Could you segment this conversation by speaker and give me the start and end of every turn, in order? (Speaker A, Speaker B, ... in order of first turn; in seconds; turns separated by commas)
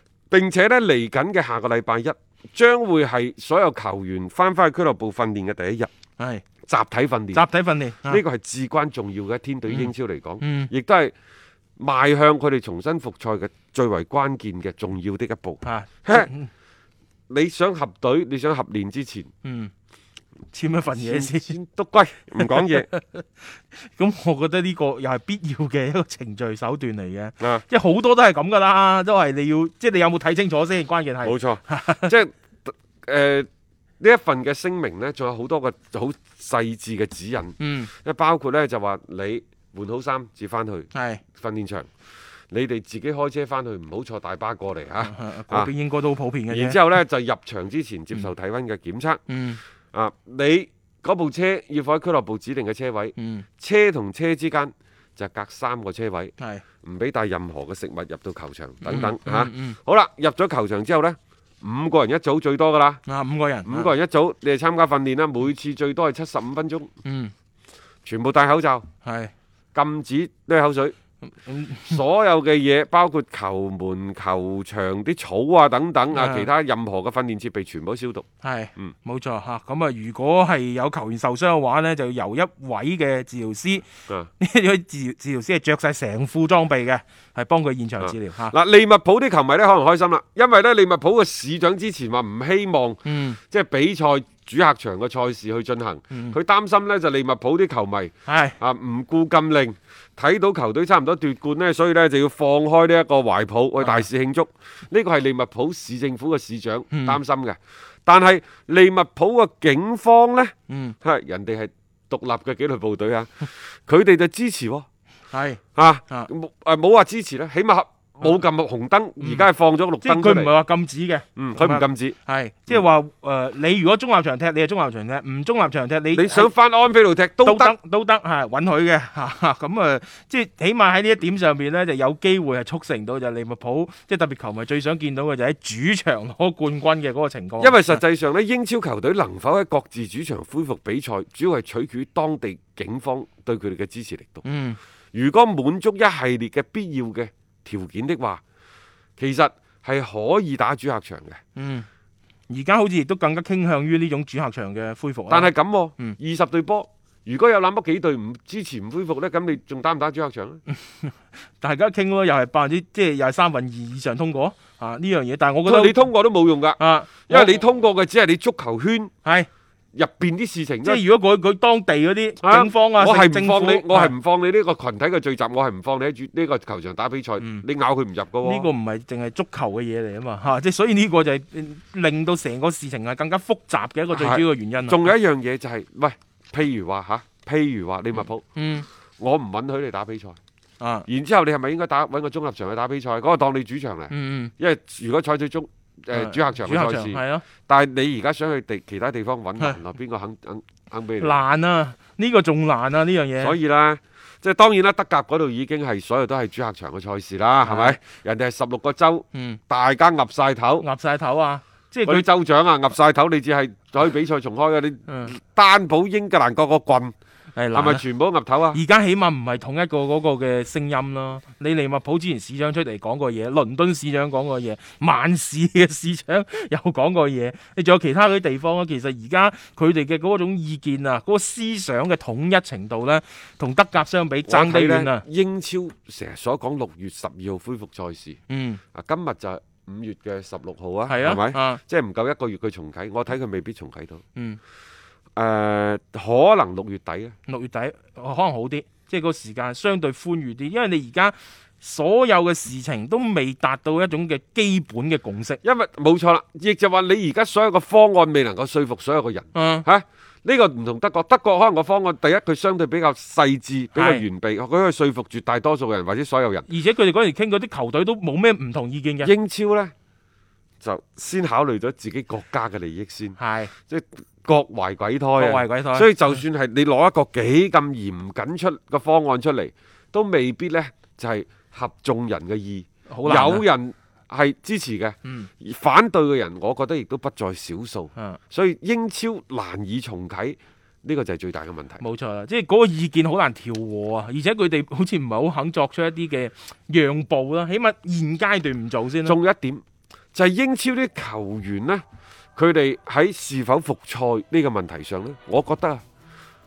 Speaker A: 0.3-5.9, Speaker B: 6.2-6.5, Speaker A: 6.7-7.5, Speaker B: 7.3-8.2, Speaker A: 8.1-11.1, Speaker B: 9.7-10.7, Speaker A: 11.8-16.3, Speaker B: 15.6-16.5, Speaker A: 17.3-19.3, Speaker B: 19.4-19.7, Speaker B: 20.5-21.6, Speaker A: 20.9-22.9, Speaker B: 22.6-32.1, Speaker A: 31.2-33.5, Speaker A: 34.0-41.9, Speaker B: 37.6-37.9, Speaker B: 40.9-41.2, Speaker A: 42.5-45.7, Speaker B: 45.0-46.8, Speaker A: 46.5-49.2, Speaker B: 49.3-49.6, Speaker A: 49.9-63.0, Speaker B: 53.2-53.5, Speaker B: 56.4-56.6, Speaker B: 58.8-59.8, Speaker B: 63.1-63.9, Speaker A: 63.6-66.9, Speaker B: 67.0-67.3, Speaker A: 68.0-68.9, Speaker B: 69.0-69.3, Speaker A: 69.7-71.0, Speaker B: 71.2-72.0, Speaker A: 71.8-78.9, Speaker B: 76.1-76.5, Speaker B: 78.4-83.8, Speaker B: 84.4-88.5, Speaker A: 88.0-114.9, Speaker B: 93.0-93.4, Speaker B: 96.1-96.4, Speaker B: 98.3-98.6, Speaker B: 103.8-104.1, Speaker B: 106.9-107.2, Speaker B: 110.7-111.0, Speaker B: 115.3-116.3, Speaker A: 115.8-120.5, Speaker B: 119.2-119.5, Speaker B: 120.0-126.5, Speaker A: 121.4-122.2, Speaker A: 126.1-127.8, Speaker B: 127.4-138.0, Speaker A: 137.6-144.4, Speaker B: 144.4-144.8, Speaker A: 145.1-148.4, Speaker A: 149.2-151.4, Speaker B: 151.6-151.9, Speaker B: 152.5-156.2, Speaker A: 155.3-160.6, Speaker B: 160.7-166.0, Speaker A: 165.7-169.1, Speaker B: 166.8-167.6, Speaker B: 169.2-169.5, Speaker A: 169.9-171.0, Speaker B: 170.8-174.1, Speaker A: 172.4-178.7, Speaker B: 177.4-177.7, Speaker B: 178.4-185.1, Speaker A: 184.1-188.4, Speaker B: 188.6-188.9, Speaker A: 189.2-190.4, Speaker B: 190.8-191.1, Speaker A: 191.1-201.4, Speaker B: 194.1-194.5, Speaker B: 196.1-197.5, Speaker B: 201.2-203.6, Speaker A: 203.4-210.9, Speaker B: 207.6-208.0, Speaker B: 209.3-209.6, Speaker B: 210.8-212.3, Speaker A: 212.1-217.1, Speaker B: 215.1-215.3, Speaker B: 217.6-218.1, Speaker A: 217.7-218.8, Speaker B: 218.7-235.3, Speaker A: 234.5-238.4, Speaker B: 238.5-238.8, Speaker A: 238.9-244.2, Speaker B: 241.1-241.8, Speaker B: 244.3-244.6, Speaker A: 245.4-247.3, Speaker B: 247.5-255.6, Speaker A: 255.6-266.7, Speaker B: 259.5-259.9, Speaker B: 263.9-264.2, Speaker B: 266.7-269.3, Speaker A: 269.2-269.9, Speaker A: 270.8-273.4, Speaker B: 273.4-273.7, Speaker A: 273.9-292.1, Speaker B: 275.4-276.4, Speaker B: 283.1-283.6, Speaker B: 285.2-285.5, Speaker B: 292.0-299.4, Speaker A: 299.2-299.8, Speaker A: 300.3-302.0, Speaker A: 302.6-306.0